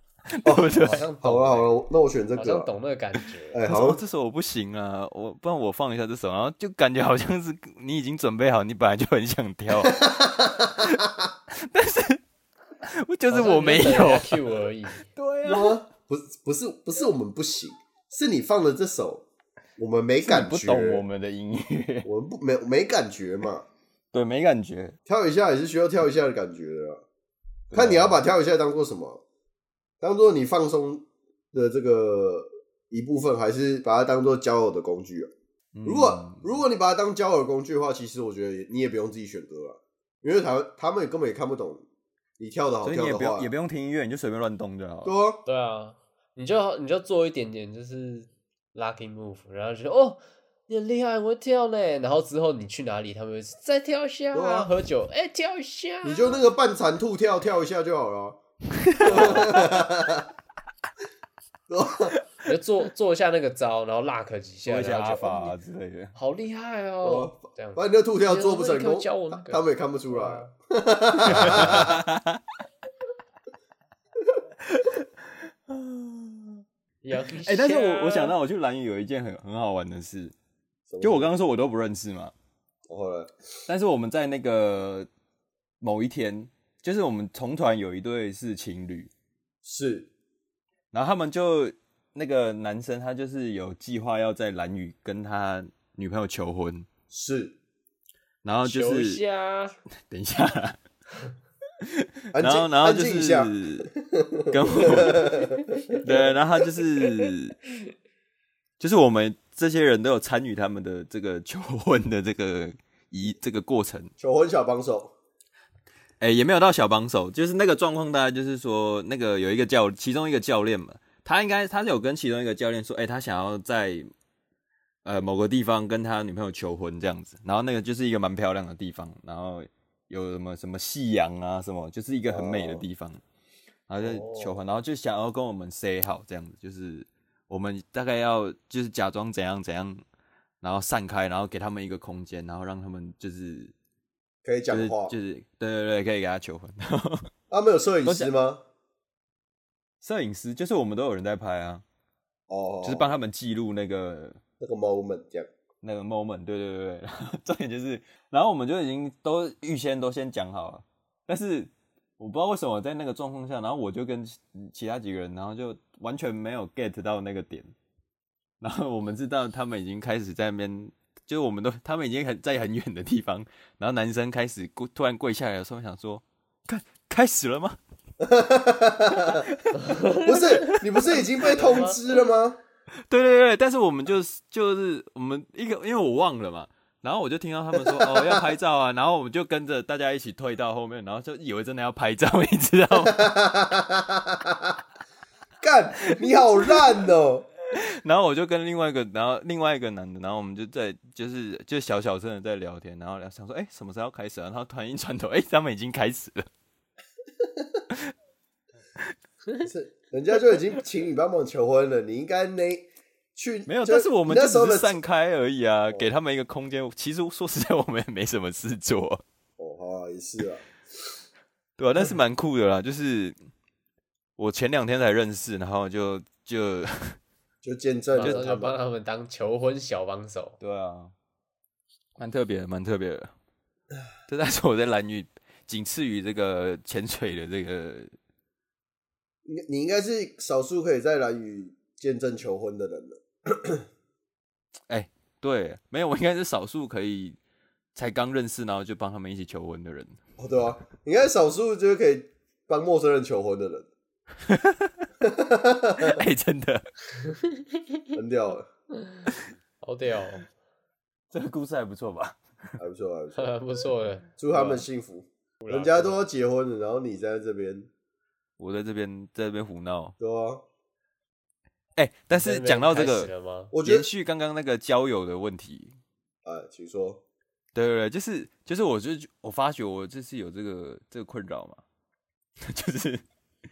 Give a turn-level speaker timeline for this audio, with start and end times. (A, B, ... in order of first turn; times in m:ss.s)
0:00.3-0:01.1 A
0:00.4-0:02.7 B
0:00.8-0:01.7 C
0:02.4-0:03.6 C
0:03.5-0:04.0 B
0:03.7-0:10.0 A
0:09.8-0:11.1 B
0:11.5-0:12.2 A
0:12.8-0:14.6 A
0:13.3-0:15.1 C
0:15.1-0:15.8 A
0:15.4-0:19.2 B
0:19.8-0:21.0 B
0:20.2-0:22.1 A
0:22.0-0:23.7 B
0:24.1-0:25.0 A
0:25.1-0:27.0 B
0:27.7-0:28.2 A
0:27.7-0:29.2 B
0:30.0-0:35.3 B
0:35.7-0:36.6 A
0:35.8-0:41.8 B
0:42.4-0:43.5 B
0:42.8-0:45.2 A
0:45.0-0:45.4 B
0:45.5-0:56.4 C
0:54.3-0:54.7 B
0:56.0-0:58.4 B
0:58.8-0:59.6 A
0:59.0-1:00.3 B
0:59.1-0:59.5 C
1:01.7-1:02.2 B
1:02.4-1:05.6 C
1:04.6-1:06.2 A
1:06.2-1:10.5 C
1:07.0-1:12.0 B
1:11.3-1:12.4 A
1:14.6-1:16.6 A
1:17.0-1:18.4 C
1:17.3-1:20.4 A
1:20.9-1:21.3 B
1:21.0-1:22.3 A
1:22.9-1:23.3 B
1:23.7-1:25.1 A
1:25.8-1:29.1 A
1:29.6-1:30.1 B
1:30.9-1:36.9 A
1:37.1-1:37.6 B
1:38.4-1:39.2 A
1:38.6-1:39.8 C
1:40.1-1:40.8 A
1:41.8-1:43.9 A
1:42.3-1:46.3 B
1:44.5-1:45.4 A
1:46.0-1:47.6 A
1:48.8-1:54.1 A
1:54.2-1:55.1 B
1:56.2-2:04.1 A
2:05.0-2:13.2 A
2:12.3-2:12.8 B
2:13.9-2:20.0 A
2:14.0-2:14.5 B
2:20.6-2:23.7 A
2:24.4-2:25.2 B
2:24.7-2:27.3 A
2:27.5-2:28.6 B
2:30.0-2:31.8 A
2:32.5-2:33.1 B
2:32.8-2:34.4 A
2:34.6-2:35.5 B
2:35.8-2:47.7 A
2:48.6-2:57.8 A
2:58.2-2:59.5 B
2:59.4-2:59.7 A
2:59.8-3:00.7 C
3:00.2-3:02.6 B
3:01.4-3:02.0 C
3:03.1-3:13.3 A
3:07.8-3:08.5 B
3:13.0-3:14.8 B
3:15.6-3:17.5 B
3:17.7-3:26.5 A
3:27.4-3:27.8 B
3:29.6-3:35.0 B
3:33.7-3:39.2 A
3:39.6-3:40.7 B
3:41.8-3:43.4 A
3:44.4-3:47.2 A
3:47.6-3:48.8 B
3:48.2-3:50.6 C
3:50.6-3:51.1 A
3:52.2-3:53.3 A
3:54.3-3:58.1 A
3:59.5-4:03.8 B
4:04.9-4:07.4 A
4:08.0-4:10.2 A
4:10.4-4:13.9 B
4:14.4-4:15.0 A
4:15.2-4:16.2 B
4:16.0-4:16.9 A
4:18.1-4:18.7 B
4:19.0-4:19.3 C
4:19.8-4:20.5 C
4:21.3-4:22.4 A
4:22.8-4:23.5 B
4:23.4-4:24.4 C
4:24.4-4:27.9 B
4:24.5-4:24.8 A
4:25.6-4:26.2 C
4:28.6-4:30.2 A
4:30.2-4:30.6 B
4:32.0-4:33.3 A
4:32.3-4:33.7 C
4:33.7-4:34.1 B
4:33.8-4:36.0 A
4:36.4-4:37.2 B
4:37.8-4:41.8 A
4:42.6-4:43.2 A